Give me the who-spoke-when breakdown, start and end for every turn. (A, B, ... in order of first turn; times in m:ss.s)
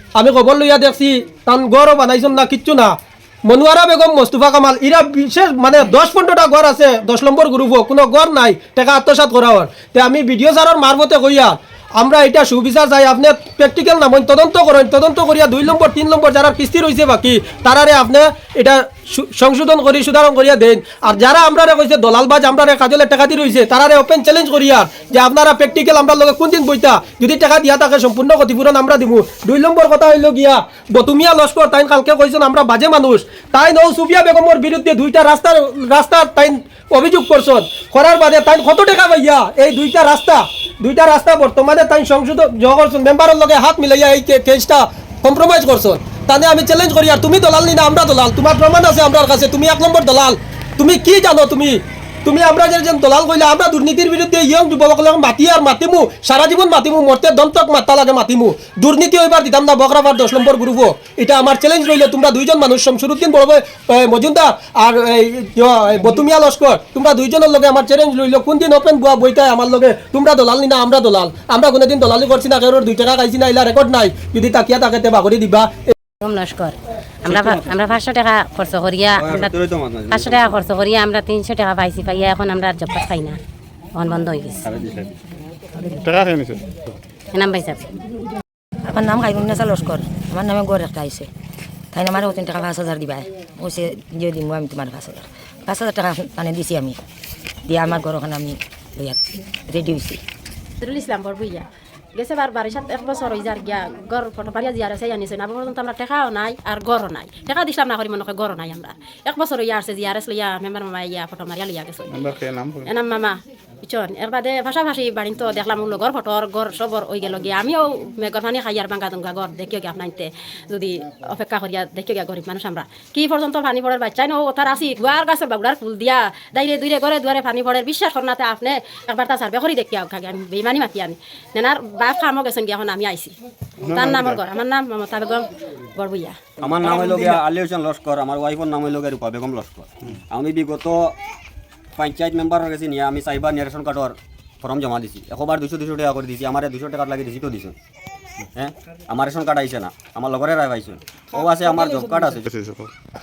0:00.2-1:15.9 A
1:16.2-1:19.6 B
1:17.3-1:17.7 C
1:19.2-1:20.6 C
1:20.1-1:23.4 B
1:24.0-1:24.6 B
1:24.7-1:25.1 C
1:25.8-1:26.1 B
1:26.0-1:26.7 D
1:27.3-1:27.9 B
1:28.9-1:31.3 E
1:31.9-1:37.0 E
1:37.7-1:40.2 E
1:40.8-1:52.3 F
1:52.2-1:52.9 D
1:52.8-2:13.3 F
2:13.8-2:16.4 F
2:13.9-2:14.3 D
2:16.6-2:21.2 C
2:22.0-2:27.8 C
2:28.6-2:32.5 C
2:32.5-2:32.9 D